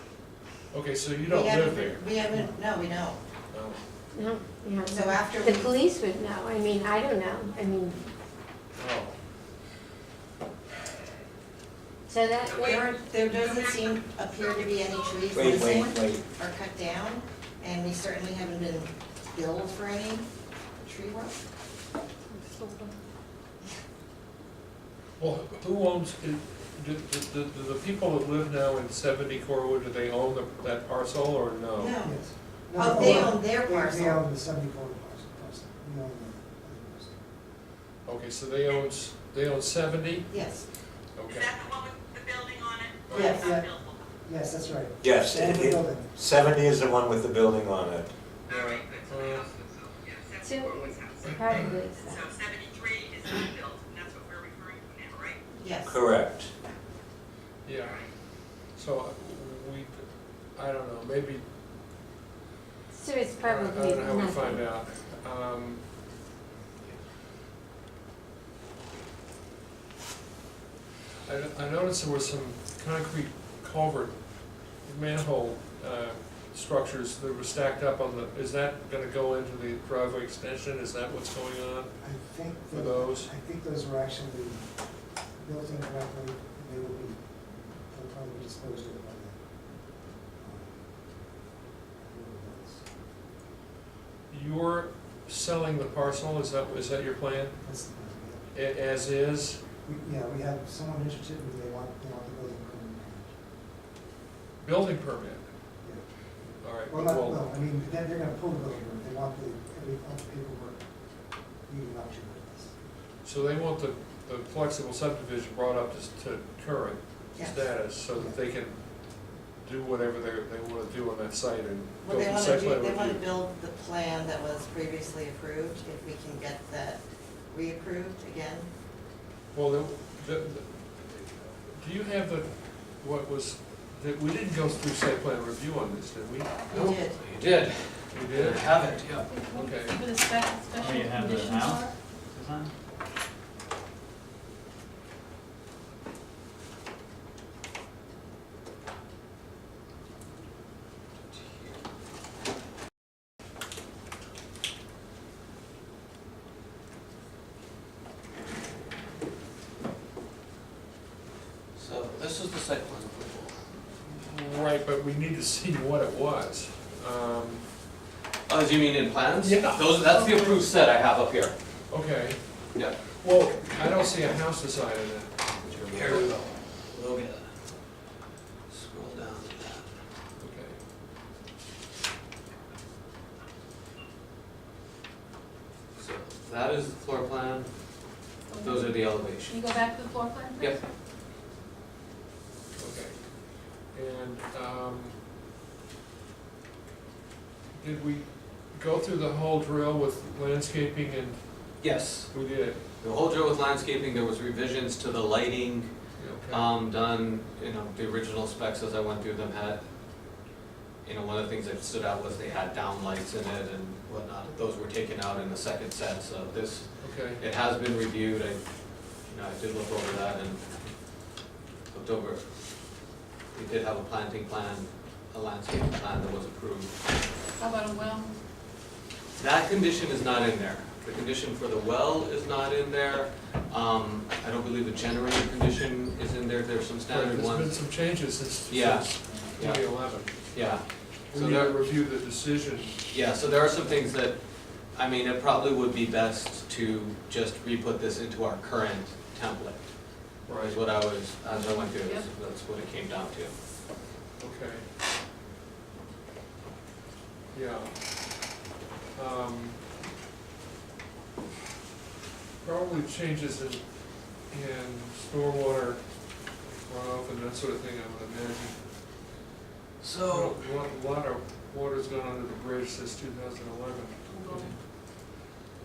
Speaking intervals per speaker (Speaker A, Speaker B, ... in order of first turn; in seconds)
Speaker A: 0.7-2.1, 3.5-3.8, 8.8-9.2, 25.2-32.0, 33.0-33.3, 38.0-40.6, 41.1-41.5, 43.1-43.3, 48.5-49.5, 57.6-59.9, 60.5-61.4, 63.5-65.8, 71.2-81.9, 82.7-83.3, 94.3-97.6, 98.5-99.7, 104.6-105.5, 106.6-107.5, 113.2-123.3, 129.5-136.6, 138.1-140.0, 164.1-167.7, 169.4-170.0, 171.9-172.4, 173.0-176.5, 180.4-180.8, 192.8-195.2, 197.8-201.7, 202.3-202.8, 206.2-206.7, 217.0-217.4, 237.1-240.8, 241.3-243.0, 250.5-250.8, 254.4-254.8, 257.5-258.5, 259.1-259.8, 262.6-268.8, 270.2-274.7
Speaker B: 1.3-3.2, 4.9-5.8, 12.7-20.3, 20.8-21.4, 31.8-32.2, 32.8-34.2, 40.3-40.7, 55.6-56.0, 117.3-117.6, 122.0-128.7, 136.7-137.2
Speaker C: 2.3-2.6, 32.0-37.3, 43.1-43.7, 44.2-46.1, 82.0-84.7, 85.4-89.4, 90.4-90.8, 92.0-92.9, 97.6-98.4, 99.8-103.3, 105.8-110.8, 111.7-112.7, 118.1-118.4
Speaker D: 4.1-8.1, 12.1-12.9, 50.4-52.4, 62.9-64.8
Speaker E: 13.4-13.8, 14.5-15.4, 41.3-44.0, 48.5-51.3, 52.1-55.4
Speaker F: 15.3-16.2, 45.0-48.1, 55.9-56.5
Speaker G: 22.3-22.9, 139.2-141.9, 170.1-170.7, 188.5-190.9, 227.6-228.3, 251.4-252.3, 274.3-274.7
Speaker H: 136.7-139.3, 161.8-163.6, 168.5-171.6, 175.6-177.8, 178.7-179.9, 185.9-187.7, 188.6-189.6, 201.8-202.3, 203.0-209.9, 211.0-221.3, 221.9-222.5, 223.5-227.1, 229.4-237.8, 238.7-241.8, 243.1-253.5, 270.0-270.6
Speaker I: 140.8-142.7